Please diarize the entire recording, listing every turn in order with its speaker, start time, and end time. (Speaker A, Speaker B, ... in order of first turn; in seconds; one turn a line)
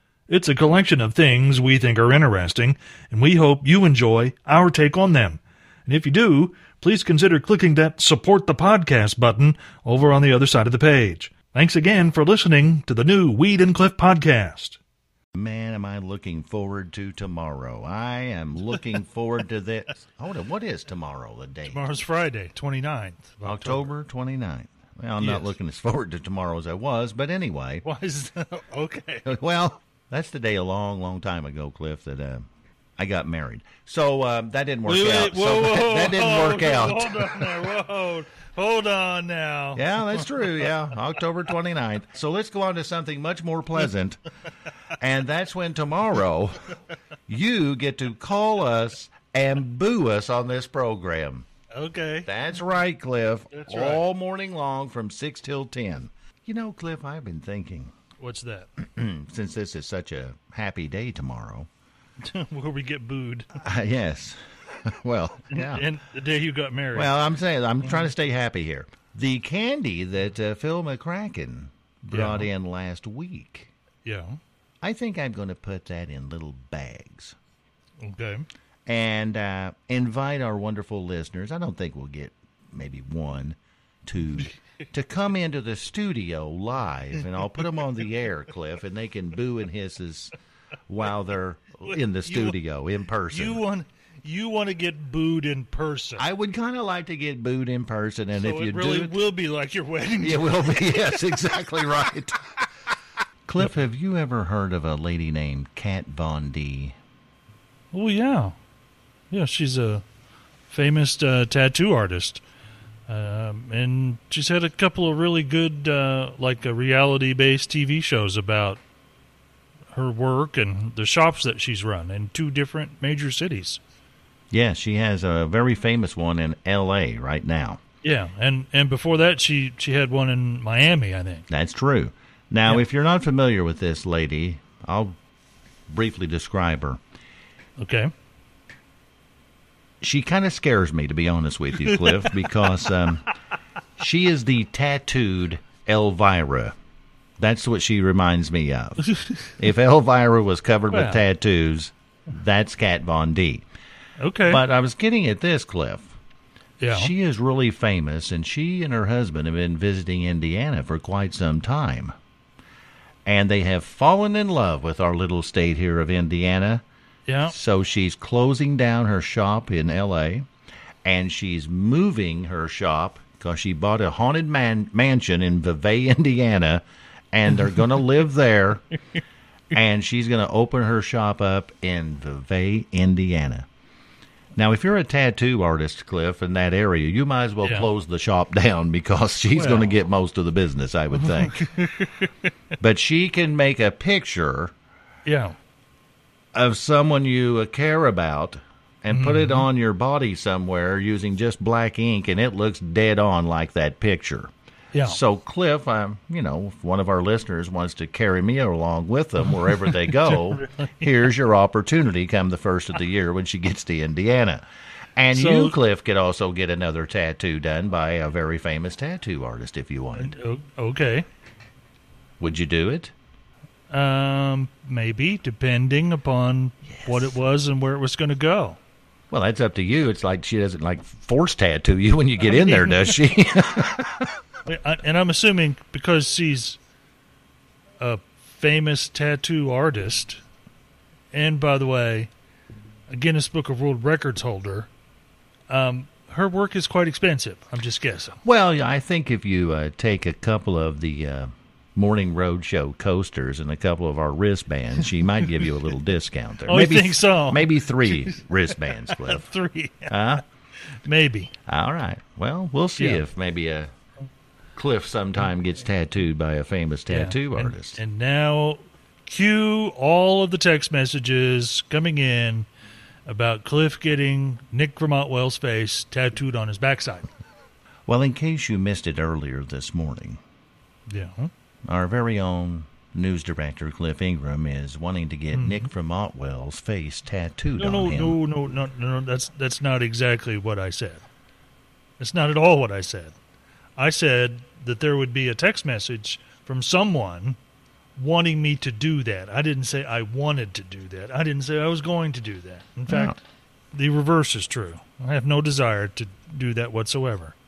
Speaker A: 0.3-14.8
Speaker B: 15.3-21.8
Speaker A: 21.7-23.9
Speaker B: 23.4-27.8
Speaker A: 25.2-25.5
Speaker A: 27.8-29.2
Speaker B: 29.2-32.4
Speaker B: 33.0-37.7
Speaker A: 34.8-40.5
Speaker B: 39.8-44.2
Speaker B: 45.0-46.6
Speaker B: 47.3-51.5
Speaker A: 51.7-52.3
Speaker B: 52.2-57.9
Speaker A: 53.5-54.0
Speaker A: 58.2-58.7
Speaker B: 58.8-61.7
Speaker A: 62.2-63.6
Speaker B: 63.5-65.9
Speaker A: 65.5-67.2
Speaker B: 66.9-73.7
Speaker A: 72.1-72.5
Speaker A: 74.0-74.4
Speaker B: 74.8-77.4
Speaker A: 78.0-78.5
Speaker B: 78.9-90.3
Speaker B: 90.9-93.6
Speaker A: 91.9-92.5
Speaker A: 93.3-96.2
Speaker B: 96.2-99.2
Speaker A: 98.3-101.1
Speaker B: 100.2-102.4
Speaker B: 103.5-107.0
Speaker A: 107.9-108.5
Speaker A: 109.3-110.0
Speaker A: 110.7-112.4
Speaker A: 113.1-118.8
Speaker A: 119.9-123.8
Speaker B: 124.5-127.8
Speaker A: 128.0-131.4
Speaker B: 131.5-135.1
Speaker B: 135.9-137.0
Speaker A: 137.8-138.1
Speaker B: 140.0-143.2
Speaker A: 141.8-142.4
Speaker B: 144.0-146.7
Speaker B: 147.4-153.6
Speaker A: 150.9-151.2
Speaker A: 154.2-154.6
Speaker B: 154.4-156.1
Speaker A: 156.8-157.1
Speaker B: 156.9-162.1
Speaker B: 163.2-166.8
Speaker A: 167.3-167.5
Speaker B: 167.4-170.5
Speaker B: 171.0-178.8
Speaker B: 179.7-183.7
Speaker B: 184.6-191.6
Speaker A: 189.5-189.9
Speaker A: 191.2-192.3
Speaker B: 192.8-194.7
Speaker A: 195.2-195.6
Speaker B: 196.5-204.5
Speaker A: 199.1-199.7
Speaker B: 205.0-214.6
Speaker A: 209.6-210.9
Speaker B: 215.2-220.3
Speaker A: 215.3-215.8
Speaker A: 220.2-221.2
Speaker B: 222.4-223.1
Speaker A: 223.9-228.8
Speaker B: 227.0-227.3
Speaker B: 229.3-234.3
Speaker A: 232.4-233.1
Speaker A: 234.6-236.8
Speaker A: 238.0-240.4
Speaker A: 241.3-242.3
Speaker A: 243.1-244.9
Speaker A: 245.7-248.4
Speaker B: 248.4-259.5
Speaker A: 256.6-260.1
Speaker B: 260.1-260.4
Speaker A: 261.0-261.5
Speaker B: 261.7-263.9
Speaker A: 263.0-263.2
Speaker B: 264.8-268.0
Speaker A: 267.1-272.7
Speaker A: 273.2-277.3
Speaker B: 278.1-280.4
Speaker A: 281.1-281.5
Speaker B: 281.9-288.4
Speaker A: 285.5-285.9
Speaker A: 287.8-291.2
Speaker A: 292.2-293.3
Speaker A: 294.0-297.6
Speaker A: 298.1-303.4
Speaker B: 303.1-303.4
Speaker A: 303.9-307.5